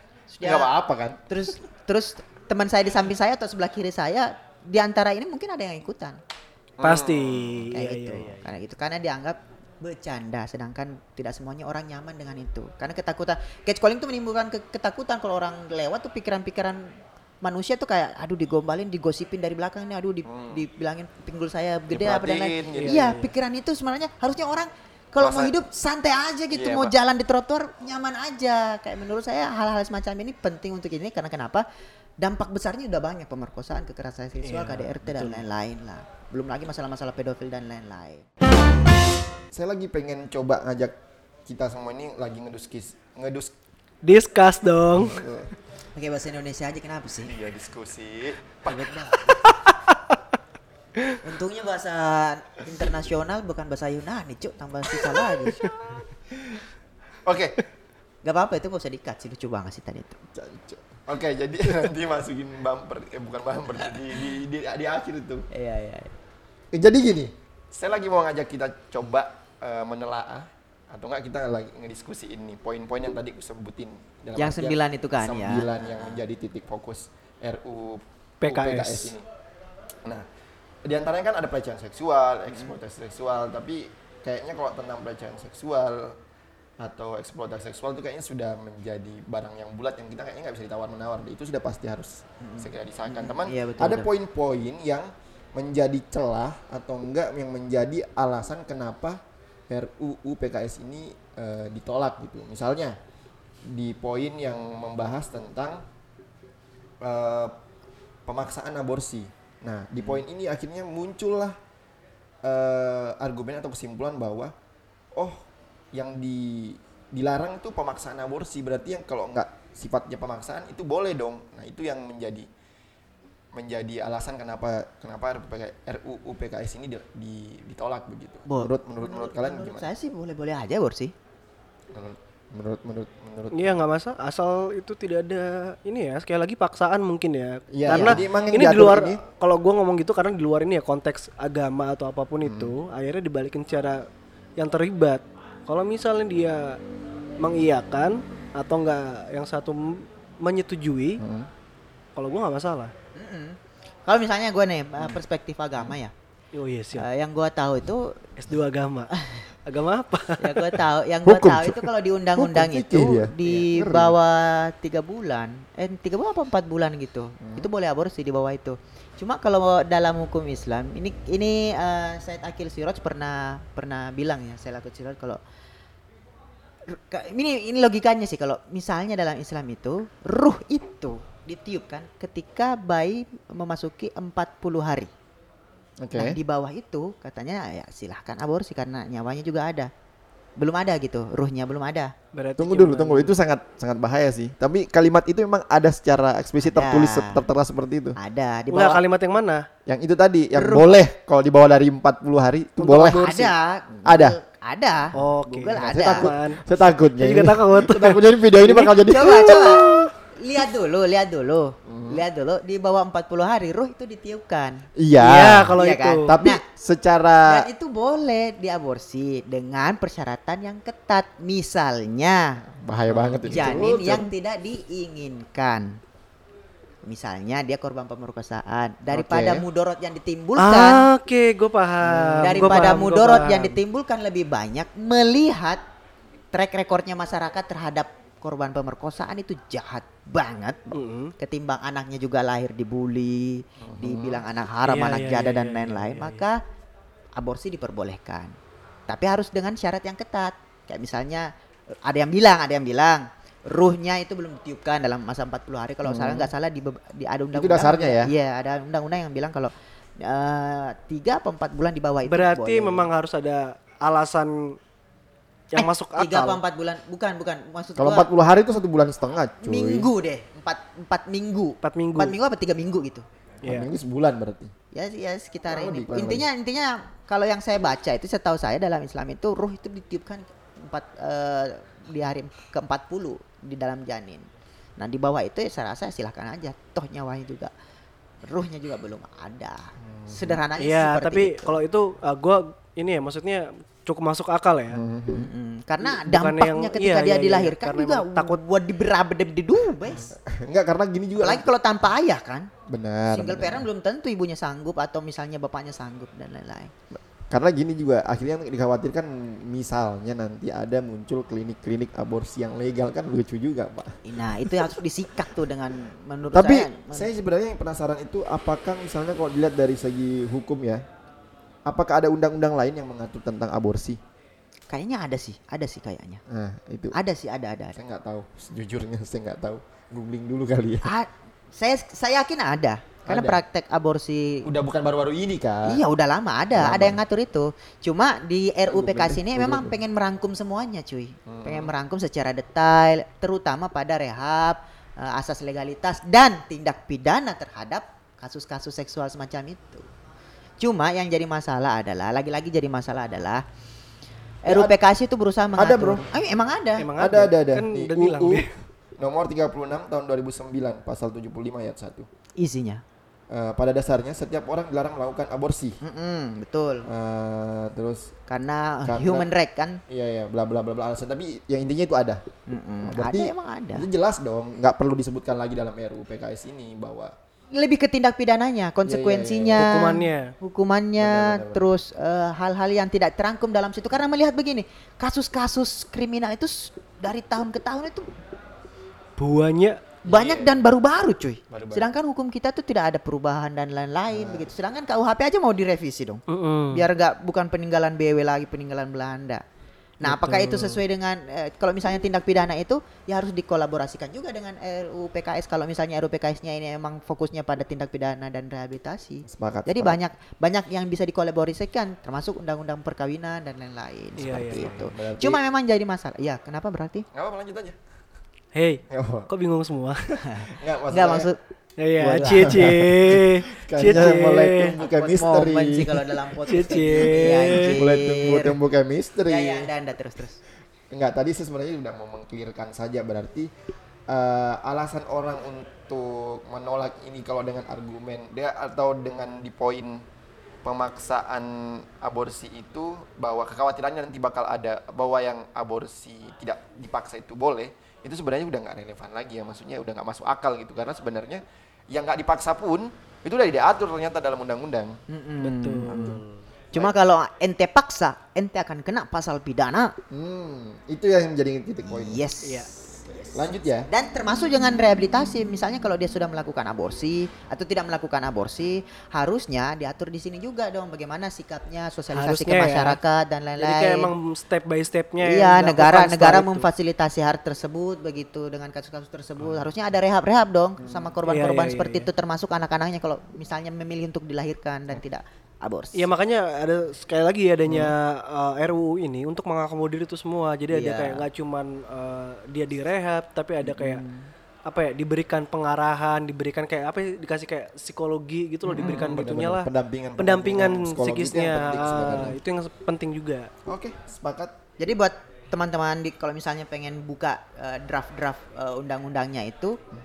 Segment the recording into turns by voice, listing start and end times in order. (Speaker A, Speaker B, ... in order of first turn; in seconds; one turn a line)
Speaker A: 0.3-0.7
Speaker B: 0.4-1.2
Speaker A: 1.3-6.2
Speaker B: 6.8-7.6
Speaker C: 6.8-8.5
Speaker A: 7.7-31.6
Speaker B: 20.2-20.6
Speaker B: 21.9-23.1
Speaker C: 22.7-23.3
Speaker B: 25.2-25.6
Speaker B: 26.5-26.9
Speaker A: 32.2-38.2
Speaker C: 34.4-35.4
Speaker B: 39.5-40.9
Speaker B: 41.5-43.5
Speaker C: 44.0-45.2
Speaker B: 45.0-45.5
Speaker A: 45.9-47.3
Speaker B: 47.2-49.4
Speaker A: 48.7-49.4
Speaker A: 51.2-55.7
Speaker B: 55.6-56.6
Speaker B: 57.2-57.6
Speaker A: 58.2-60.2
Speaker B: 60.3-65.5
Speaker A: 65.5-66.2
Speaker B: 66.7-79.2
Speaker A: 74.3-76.2
Speaker C: 78.4-79.1
Speaker B: 80.8-86.2
Speaker B: 86.8-103.0
Speaker A: 92.4-94.1
Speaker B: 103.7-105.8
Speaker B: 107.0-107.5
Speaker B: 108.2-111.6
Speaker B: 112.4-114.5
Speaker B: 115.1-122.5
Speaker B: 123.5-129.8
Speaker A: 128.5-131.1
Speaker B: 131.9-133.7
Speaker C: 133.5-144.1
Speaker B: 137.7-139.2
Speaker A: 137.9-138.2
Speaker B: 142.4-142.7
Speaker C: 144.6-146.8
Speaker C: 147.4-151.2
Speaker B: 151.2-151.5
Speaker C: 152.2-152.9
Speaker A: 153.2-156.1
Speaker C: 156.5-157.1
Speaker A: 156.9-158.2
Speaker C: 158.4-159.1
Speaker A: 159.1-159.4
Speaker C: 159.7-160.8
Speaker A: 160.4-175.4
Speaker B: 161.2-164.1
Speaker B: 167.4-167.7
Speaker A: 176.9-185.1
Speaker B: 186.0-186.4
Speaker A: 186.1-189.9
Speaker A: 190.6-192.1
Speaker C: 192.3-193.3
Speaker B: 192.6-198.2
Speaker A: 196.6-197.4
Speaker A: 198.2-199.0
Speaker C: 198.7-199.7
Speaker B: 199.9-203.5
Speaker A: 200.5-201.0
Speaker C: 202.8-203.5
Speaker A: 203.1-206.3
Speaker B: 204.0-204.4
Speaker C: 205.1-209.0
Speaker B: 205.8-210.1
Speaker A: 209.1-216.6
Speaker B: 211.9-212.2
Speaker B: 214.9-217.7
Speaker C: 215.2-216.3
Speaker A: 217.4-222.6
Speaker B: 222.7-224.3
Speaker C: 223.1-223.9
Speaker A: 223.5-226.0
Speaker A: 227.0-231.1
Speaker B: 229.1-229.7
Speaker C: 230.6-233.8
Speaker B: 232.0-232.8
Speaker A: 232.4-235.8
Speaker A: 236.5-246.6
Speaker C: 240.9-241.3
Speaker B: 243.8-244.4
Speaker C: 244.8-246.4
Speaker A: 247.4-248.5
Speaker A: 249.1-251.5
Speaker A: 252.0-263.1
Speaker B: 256.0-256.5
Speaker B: 257.5-258.3
Speaker C: 262.3-264.8
Speaker C: 265.7-266.6
Speaker A: 265.7-268.3
Speaker B: 268.0-270.1
Speaker A: 269.6-273.2
Speaker C: 271.8-272.4
Speaker B: 273.6-274.7
Speaker C: 273.6-273.9
Speaker A: 274.9-284.4
Speaker B: 275.7-276.5
Speaker A: 285.0-287.7
Speaker A: 288.4-291.8
Speaker B: 290.0-290.6
Speaker C: 290.8-295.0
Speaker B: 294.9-295.5
Speaker A: 295.3-300.3
Speaker C: 296.0-298.6
Speaker B: 300.3-301.7
Speaker A: 301.4-302.7
Speaker B: 302.9-303.9
Speaker A: 303.3-306.9
Speaker B: 307.1-314.9
Speaker A: 314.2-317.3
Speaker B: 316.5-321.0
Speaker B: 321.9-324.2
Speaker A: 324.9-326.4
Speaker B: 326.5-327.1
Speaker A: 327.1-328.0
Speaker B: 327.9-331.1
Speaker A: 331.0-334.7
Speaker B: 333.2-333.6
Speaker B: 334.6-336.0
Speaker A: 335.9-350.1
Speaker B: 336.7-337.2
Speaker B: 338.9-340.0
Speaker B: 341.5-341.9
Speaker A: 350.8-353.6
Speaker A: 354.6-357.1
Speaker B: 354.7-354.9
Speaker B: 355.8-356.3
Speaker C: 357.0-358.7
Speaker B: 357.2-362.3
Speaker A: 362.6-363.0
Speaker B: 363.5-366.0
Speaker A: 366.0-367.1
Speaker B: 367.1-368.3
Speaker A: 368.5-370.0
Speaker B: 369.0-369.5
Speaker B: 370.1-372.4
Speaker A: 372.7-374.1
Speaker B: 373.0-377.3
Speaker A: 377.7-388.3
Speaker B: 379.0-380.0
Speaker C: 379.8-380.5
Speaker B: 381.2-381.9
Speaker C: 389.4-390.0
Speaker A: 390.2-399.6
Speaker B: 390.3-390.8
Speaker B: 391.7-392.1
Speaker B: 394.3-394.7
Speaker C: 396.5-397.0
Speaker A: 400.2-417.2
Speaker B: 400.2-401.0
Speaker B: 409.5-410.2
Speaker C: 414.4-415.1
Speaker B: 414.7-415.6
Speaker B: 417.3-418.0
Speaker C: 418.7-420.4
Speaker B: 419.1-419.5
Speaker A: 420.4-421.6
Speaker B: 420.7-421.5
Speaker C: 422.0-424.9
Speaker A: 422.2-423.0
Speaker B: 422.4-426.3
Speaker A: 425.0-428.8
Speaker C: 426.7-428.0
Speaker B: 427.8-429.9
Speaker A: 429.5-430.6
Speaker B: 431.1-433.7
Speaker B: 434.3-440.2
Speaker B: 440.8-455.2
Speaker A: 455.3-456.4
Speaker C: 455.6-456.6
Speaker B: 456.1-456.4
Speaker A: 456.9-460.1
Speaker B: 460.3-462.4
Speaker A: 462.1-474.3
Speaker B: 463.5-464.1
Speaker C: 472.3-473.2
Speaker C: 473.8-476.9
Speaker A: 475.4-486.3
Speaker B: 481.0-481.3
Speaker C: 481.5-482.3
Speaker C: 486.1-494.2
Speaker A: 490.9-491.4
Speaker A: 493.9-494.5
Speaker C: 494.9-503.7
Speaker B: 498.9-502.6
Speaker A: 499.0-499.3
Speaker B: 503.8-504.8
Speaker A: 505.0-510.0